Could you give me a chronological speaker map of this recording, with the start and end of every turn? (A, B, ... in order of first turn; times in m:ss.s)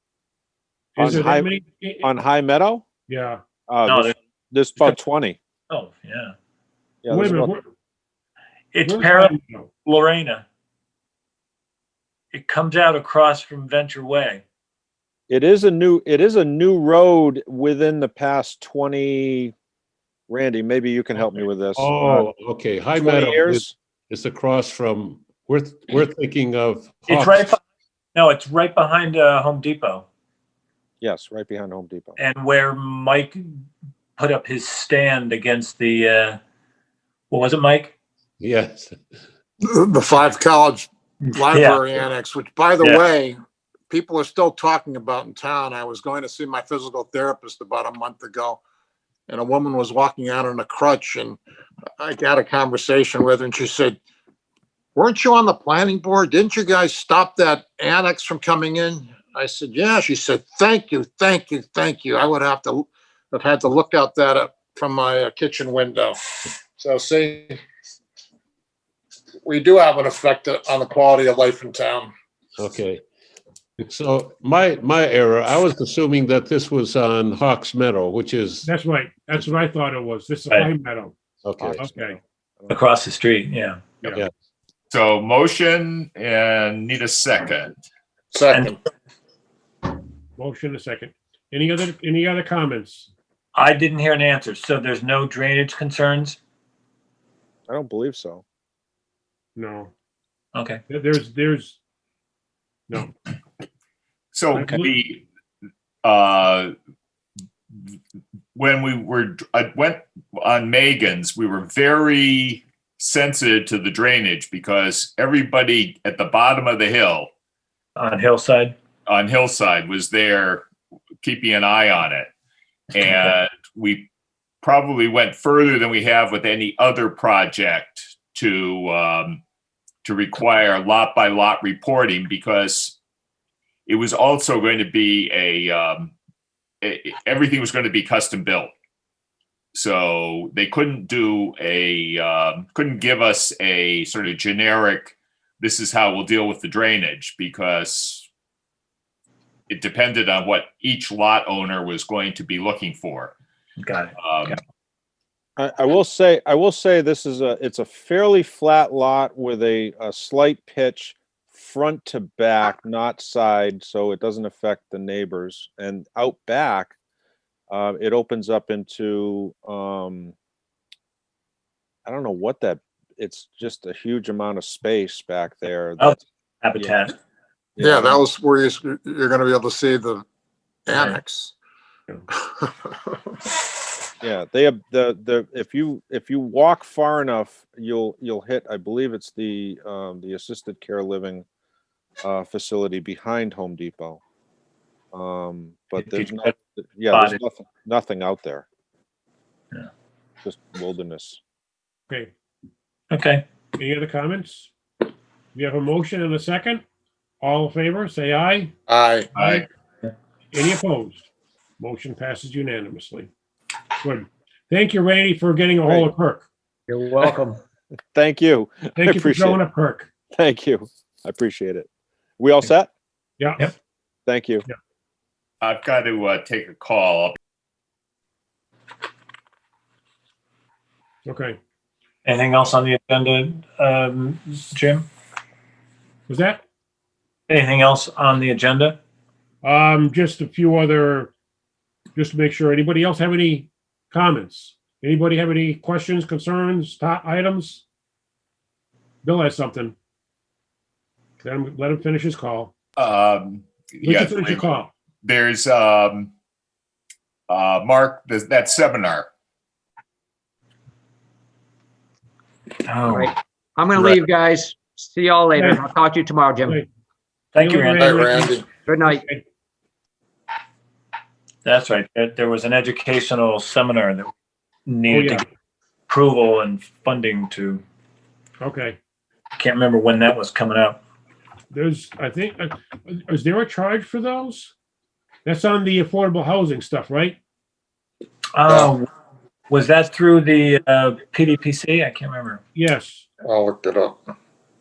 0:01.0-0:02.1 A
0:01.0-0:01.5 B
0:02.0-0:02.8 B
0:03.1-0:03.4 A
0:03.7-0:05.4 B
0:03.8-0:04.1 C
0:05.7-0:06.3 C
0:07.0-0:07.6 B
0:07.1-0:07.6 A
0:08.7-0:10.4 C
0:08.8-0:09.7 A
0:12.3-0:14.4 C
0:15.3-0:19.5 B
0:20.3-0:22.3 B
0:21.2-0:27.6 D
0:23.0-0:23.7 B
0:27.1-0:27.6 C
0:28.1-0:30.0 C
0:31.0-0:32.2 B
0:32.2-0:33.4 C
0:34.2-0:36.4 C
0:37.3-0:37.9 C
0:38.4-0:39.0 D
0:39.7-0:43.4 E
0:41.2-0:42.0 C
0:43.9-0:48.6 E
0:49.3-0:51.4 E
0:52.0-0:54.0 E
0:54.9-1:06.2 E
1:06.8-1:07.6 E
1:09.4-1:12.1 E
1:12.6-1:13.0 D
1:13.8-1:18.7 D
1:18.6-1:21.2 A
1:21.4-1:21.8 D
1:21.6-1:22.8 B
1:21.7-1:22.2 A
1:22.7-1:23.8 C
1:24.0-1:24.3 D
1:24.9-1:27.7 F
1:28.3-1:28.8 E
1:28.5-1:28.8 C
1:30.4-1:33.1 A
1:33.5-1:36.4 C
1:37.7-1:38.4 B
1:39.6-1:39.9 A
1:40.5-1:40.8 C
1:40.9-1:41.8 A
1:44.3-1:45.2 F
1:44.6-1:44.9 A
1:46.0-1:46.7 F
1:48.5-1:57.3 F
1:58.0-1:58.7 C
1:59.1-2:00.7 F
2:01.2-2:02.3 F
2:02.9-2:04.1 F
2:04.6-2:09.4 F
2:10.0-2:13.0 F
2:13.9-2:16.1 F
2:16.8-2:18.7 F
2:19.7-2:28.3 F
2:29.7-2:33.3 F
2:33.8-2:34.5 C
2:34.2-2:34.6 F
2:35.6-2:46.9 B
2:47.7-2:50.3 B
2:52.0-2:56.2 B
2:56.0-2:57.1 C
2:57.8-2:58.2 B
2:57.8-3:00.2 E
3:00.8-3:01.5 E
3:00.9-3:01.2 C
3:02.3-3:02.9 E
3:04.2-3:11.4 B
3:12.2-3:14.2 B
3:15.1-3:18.6 B
3:16.0-3:16.5 C
3:17.1-3:17.4 C
3:20.4-3:21.4 B
3:23.1-3:23.4 C
3:23.8-3:24.7 A
3:25.5-3:26.8 A
3:27.4-3:28.7 A
3:28.9-3:29.3 E
3:29.4-3:29.6 F
3:30.5-3:31.3 A
3:31.8-3:33.3 A
3:34.0-3:36.5 A
3:36.9-3:37.6 G
3:38.1-3:39.6 B
3:38.9-3:40.1 A
3:40.3-3:41.9 B
3:42.4-3:42.9 B
3:43.4-3:43.7 A
3:44.3-3:44.6 B
3:45.6-3:47.4 F
3:51.2-3:51.6 A
3:52.2-3:55.1 C
3:56.3-3:56.6 A
3:57.5-3:59.0 C
3:59.6-4:01.3 A
4:02.2-4:07.8 A
4:09.2-4:10.0 A
4:11.4-4:12.7 A
4:13.0-4:14.7 F
4:14.0-4:14.9 A
4:15.2-4:16.3 F
4:17.5-4:19.3 F
4:22.8-4:23.4 C
4:23.0-4:26.8 G
4:25.6-4:25.8 A
4:27.5-4:28.3 C
4:27.6-4:29.4 A
4:27.9-4:28.7 E
4:28.8-4:29.2 G
4:31.6-4:34.3 C
4:34.9-4:35.4 C
4:35.1-4:35.4 A
4:36.1-4:37.8 C
4:38.6-4:39.0 A
4:39.6-4:41.0 C
4:41.7-4:44.7 A
4:45.4-4:47.4 A
4:48.6-4:49.1 C
4:48.7-4:48.9 E
4:49.7-4:52.6 C
4:52.7-4:53.3 A
4:53.4-4:54.2 E